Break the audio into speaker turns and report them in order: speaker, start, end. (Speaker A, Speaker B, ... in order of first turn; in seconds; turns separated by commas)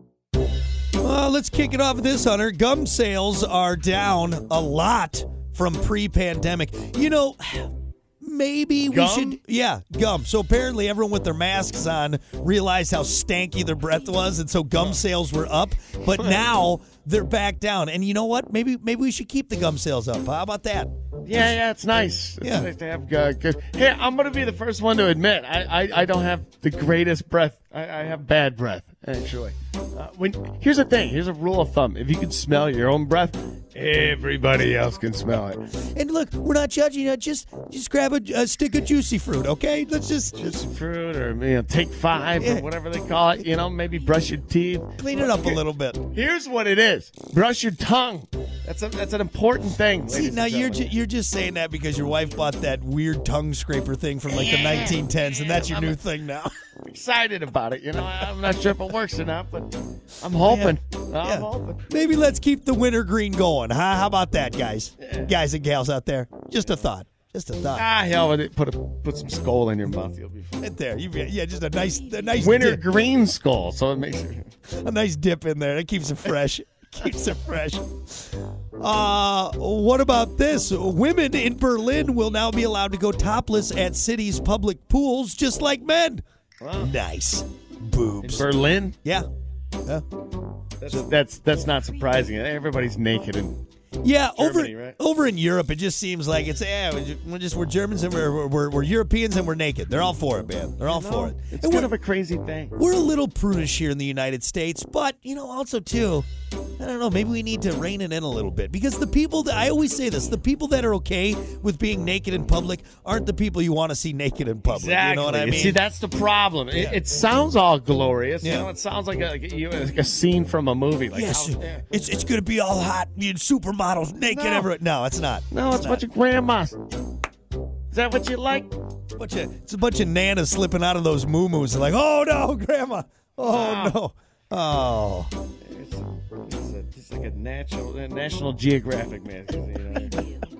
Speaker A: 1.0-21.4, Speaker B: 8.8-9.4, Speaker B: 21.2-35.6, Speaker A: 22.4-22.7, Speaker A: 35.9-40.5, Speaker B: 40.3-50.9, Speaker A: 42.4-42.7, Speaker A: 45.0-46.0, Speaker A: 50.1-56.5, Speaker B: 54.3-56.0, Speaker B: 56.8-61.8, Speaker A: 60.4-67.9, Speaker B: 65.0-65.3, Speaker B: 67.7-70.6, Speaker A: 70.6-72.8, Speaker B: 72.3-74.5, Speaker A: 74.7-86.2, Speaker B: 86.6-86.9, Speaker A: 86.8-88.5, Speaker B: 88.2-89.0, Speaker B: 90.8-93.6, Speaker A: 94.0-101.9, Speaker B: 94.3-95.0, Speaker B: 100.8-102.8, Speaker A: 102.8-106.2, Speaker A: 106.8-115.8, Speaker B: 114.7-121.9, Speaker A: 118.4-118.7, Speaker A: 121.1-126.0, Speaker B: 124.2-124.7, Speaker B: 125.5-126.8, Speaker B: 127.9-128.7, Speaker A: 129.2-135.3, Speaker B: 133.4-134.0, Speaker B: 135.6-140.3